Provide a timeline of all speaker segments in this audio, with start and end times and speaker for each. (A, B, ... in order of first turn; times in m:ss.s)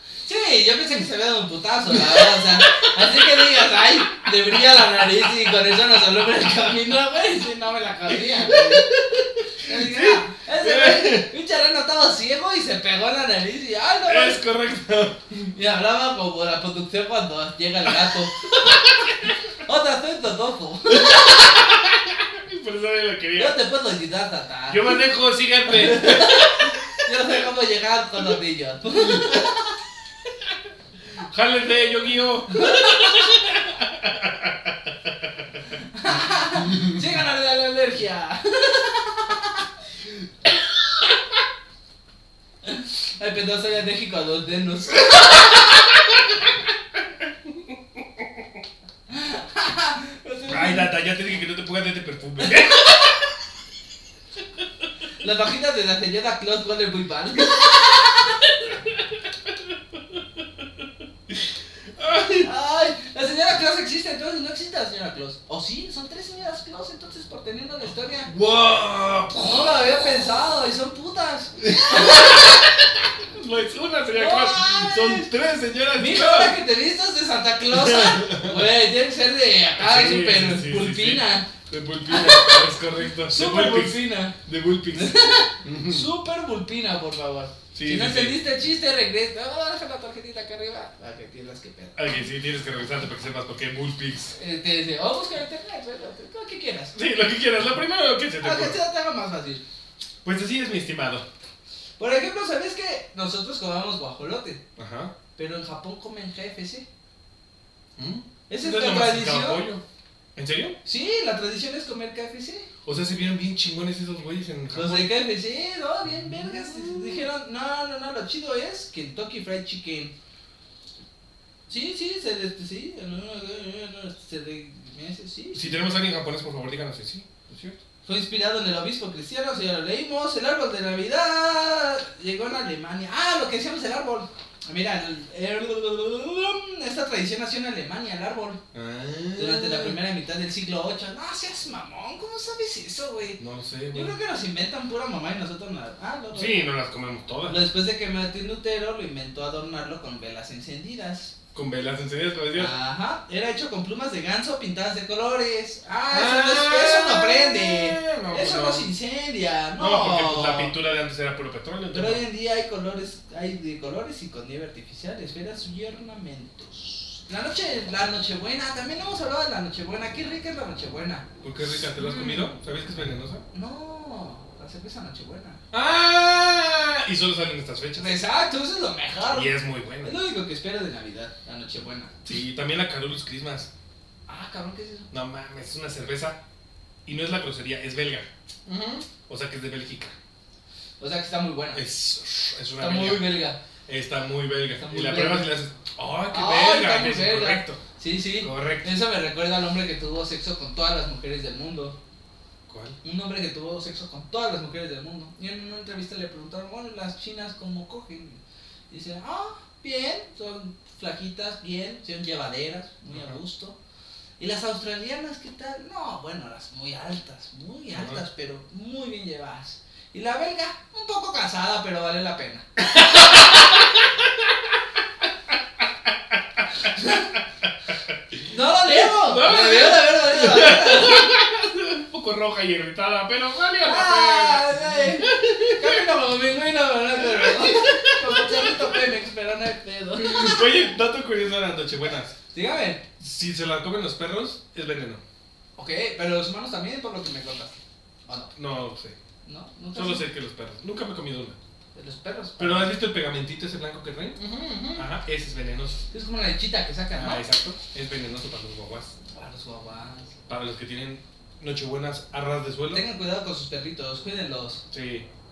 0:00.2-0:08.9 A
0:01.9-0:04.6 B
0:08.1-0:11.3 B
0:09.5-0:14.4 A
0:14.1-0:15.5 B
0:15.5-0:18.9 A
0:18.0-0:18.8 B
0:19.6-0:21.4 A
0:20.9-0:23.6 B
0:23.4-0:25.0 A
0:24.7-0:26.8 B
0:25.7-0:29.7 A
0:29.1-0:29.4 B
0:31.1-0:35.5 B
0:32.5-0:33.3 A
0:35.9-0:39.6 A
0:42.6-0:45.7 A
0:49.1-0:50.9 A
0:50.5-0:53.0 B
0:55.2-0:58.5 A
1:01.9-1:02.5 B
1:02.4-1:08.3 A
1:08.3-1:09.8 B
1:09.4-1:12.5 A
1:11.6-1:16.6 B
1:14.1-1:15.3 A
1:16.0-1:21.5 A
1:17.7-1:18.7 B
1:19.8-1:26.1 B
1:22.1-1:22.6 A
1:23.3-1:24.4 A
1:24.9-1:32.0 A
1:27.7-1:28.4 B
1:32.0-1:34.4 B
1:34.4-1:36.9 A
1:36.9-1:38.8 B
1:38.4-1:39.6 A
1:40.2-1:41.2 B
1:42.0-1:44.6 A
1:44.8-1:45.1 B
1:45.4-1:46.9 A
1:48.0-1:49.8 B
1:48.5-1:49.6 A
1:50.4-1:50.8 B
1:50.8-1:52.7 A
1:52.9-1:55.1 B
1:54.7-2:00.1 A
1:56.2-1:57.2 B
2:01.7-2:05.7 A
2:05.5-2:07.8 B
2:08.0-2:18.6 A
2:18.7-2:20.0 B
2:19.4-2:23.4 A
2:23.4-2:24.1 B
2:23.9-2:26.6 A
2:26.3-2:27.6 B
2:27.4-2:31.3 A
2:31.5-2:32.7 B
2:32.5-2:40.7 A
2:36.1-2:38.9 B
2:39.8-2:42.3 B
2:41.9-2:51.3 A
2:51.4-2:53.4 B
2:52.0-2:52.5 A
2:53.5-2:55.6 A
2:55.7-2:58.2 B
2:58.0-3:02.1 A
2:59.3-3:00.2 B
3:02.2-3:03.7 B
3:04.3-3:05.1 A
3:05.1-3:06.4 B
3:07.0-3:10.1 B
3:11.0-3:11.8 A
3:11.7-3:17.8 B
3:12.8-3:13.6 A
3:14.8-3:15.5 A
3:16.3-3:22.0 A
3:18.4-3:18.9 B
3:22.7-3:23.0 B
3:23.0-3:33.8 A
3:34.4-3:42.7 A
3:37.9-3:38.2 B
3:43.0-3:43.6 B
3:46.9-3:47.3 A
3:48.5-3:51.3 A
3:48.9-3:56.1 B
3:53.8-4:00.8 A
3:57.2-3:59.0 B
4:00.2-4:02.4 B
4:02.5-4:03.1 A
4:03.2-4:05.2 B
4:05.8-4:08.5 A
4:08.5-4:09.2 B
4:09.4-4:10.2 A
4:09.9-4:11.6 B
4:11.9-4:12.9 A
4:12.6-4:14.4 B
4:14.4-4:15.1 A
4:14.9-4:16.0 B
4:16.1-4:17.4 A
4:17.1-4:19.1 B
4:19.3-4:20.3 A
4:20.5-4:23.0 B
4:22.9-4:24.8 A
4:24.9-4:25.3 B